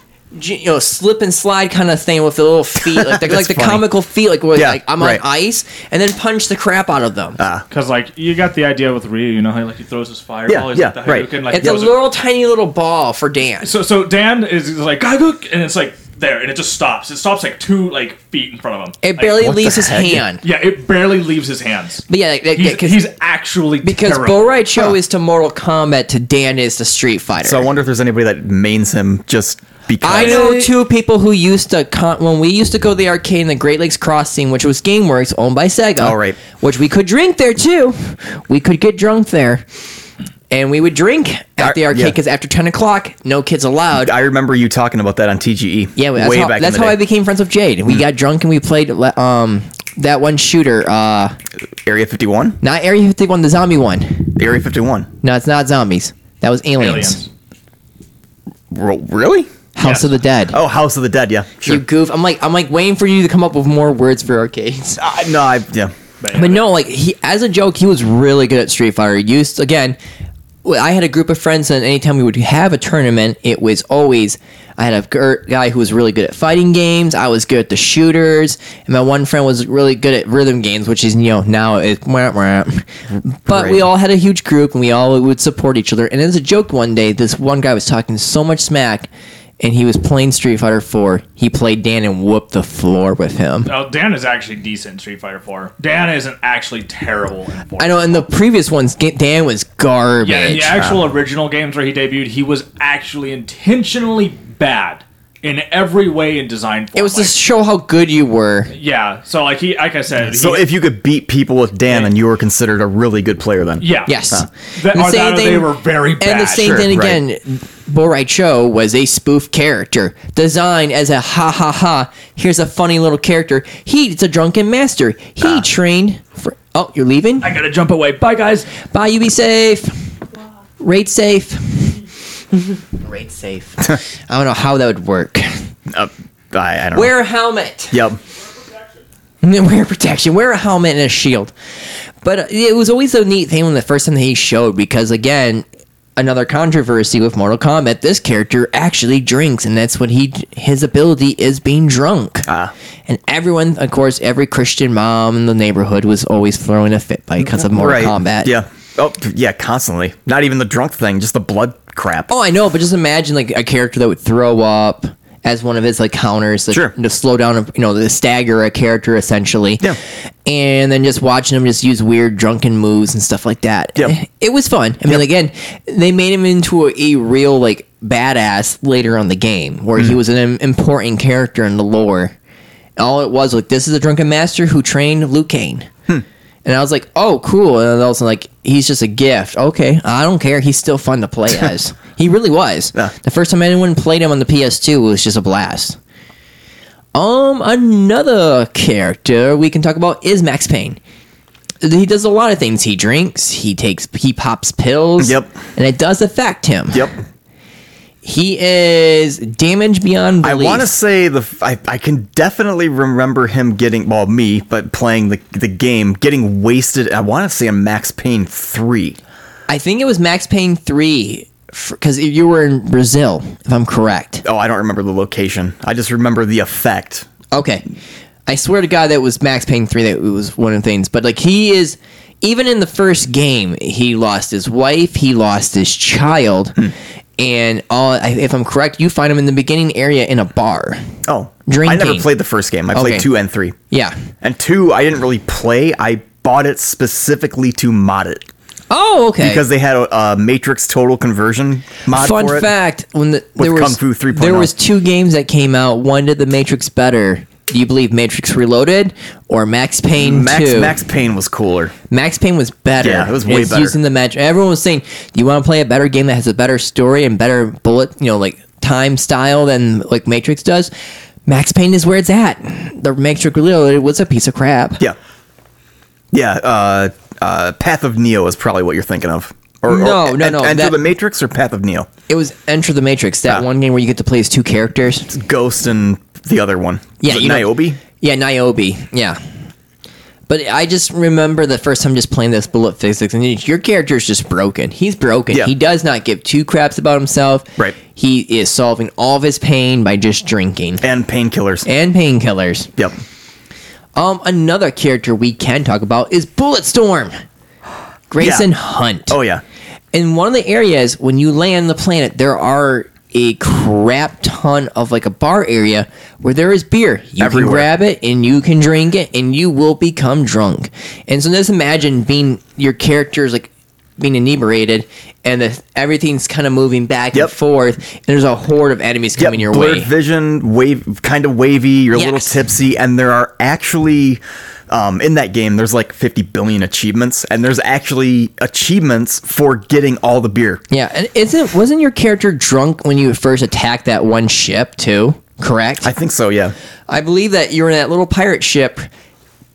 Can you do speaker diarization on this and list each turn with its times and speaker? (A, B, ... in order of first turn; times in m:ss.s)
0:00.3-0:07.4 A
0:02.8-0:03.8 B
0:04.6-0:05.2 B
0:07.4-0:07.6 B
0:07.7-0:11.9 C
0:10.5-0:11.8 B
0:11.5-0:13.7 A
0:13.6-0:19.5 C
0:19.0-0:20.4 A
0:19.4-0:20.2 B
0:20.4-0:24.5 C
0:22.1-0:23.0 A
0:23.8-0:27.7 A
0:27.4-0:30.5 B
0:30.0-0:39.6 A
0:30.1-0:30.7 C
0:36.0-0:36.4 B
0:40.5-0:44.1 A
0:41.6-0:42.2 B
0:44.0-0:47.0 B
0:46.0-0:51.4 A
0:51.8-0:52.6 B
0:52.6-0:54.4 A
0:54.4-0:55.1 B
0:55.2-0:57.2 A
0:56.8-0:57.2 C
0:58.7-0:59.5 B
0:59.8-1:00.6 A
0:59.8-1:00.1 C
1:00.5-1:01.8 B
1:01.6-1:05.0 A
1:05.0-1:05.9 B
1:06.2-1:06.6 C
1:06.3-1:10.0 A
1:10.6-1:29.1 A
1:23.5-1:23.9 B
1:29.6-1:33.7 A
1:33.7-1:38.3 C
1:37.8-1:40.8 A
1:40.2-1:47.4 C
1:40.8-1:41.0 B
1:47.0-1:48.7 A
1:48.7-1:50.6 C
1:50.3-1:54.5 B
1:53.8-1:54.2 C
1:54.1-2:07.5 A
1:54.8-1:56.8 C
1:56.6-1:57.2 B
2:07.4-2:08.7 C
2:08.8-2:10.0 A
2:10.8-2:15.5 A
2:15.9-2:17.1 B
2:16.9-2:18.0 A
2:17.9-2:18.2 B
2:19.4-2:21.5 A
2:22.2-2:25.6 A
2:26.2-2:32.5 A
2:32.5-2:32.7 B
2:33.1-2:38.5 A
2:37.6-2:42.3 B
2:42.3-2:49.9 A
2:50.5-3:02.4 A
3:03.0-3:05.9 A
3:06.6-3:16.0 A
3:17.2-3:21.0 A
3:21.8-3:27.1 A
3:25.2-3:25.6 B
3:26.9-3:27.2 B
3:28.2-3:30.9 A
3:30.4-3:39.2 B
3:39.7-3:44.4 A
3:44.4-3:47.3 B
3:47.5-3:47.8 A
3:48.5-4:01.0 A
4:01.2-4:03.8 B
4:01.7-4:02.3 A
4:02.9-4:03.3 A
4:03.9-4:04.2 A
4:04.4-4:08.5 B
4:08.9-4:09.6 A
4:09.4-4:12.7 B
4:12.1-4:21.0 A
4:13.6-4:14.7 B
4:20.2-4:21.9 B
4:22.1-4:30.9 A
4:23.0-4:24.0 B
4:31.5-4:35.0 A
4:36.3-4:42.1 B
4:39.9-4:41.0 A
4:42.3-4:45.3 A
4:45.3-4:48.0 B
4:47.2-4:49.4 A
4:50.5-5:01.0 A
5:01.0-5:01.9 B
5:01.9-5:02.9 A
5:04.2-5:07.4 A
5:08.3-5:09.4 A
5:08.4-5:08.7 B
5:09.3-5:09.6 B
5:10.1-5:30.1 A
5:17.4-5:17.9 B
5:29.4-5:40.8 B
5:32.2-5:32.6 A
5:40.9-5:46.1 A
5:46.0-5:46.7 B
5:47.1-5:49.1 A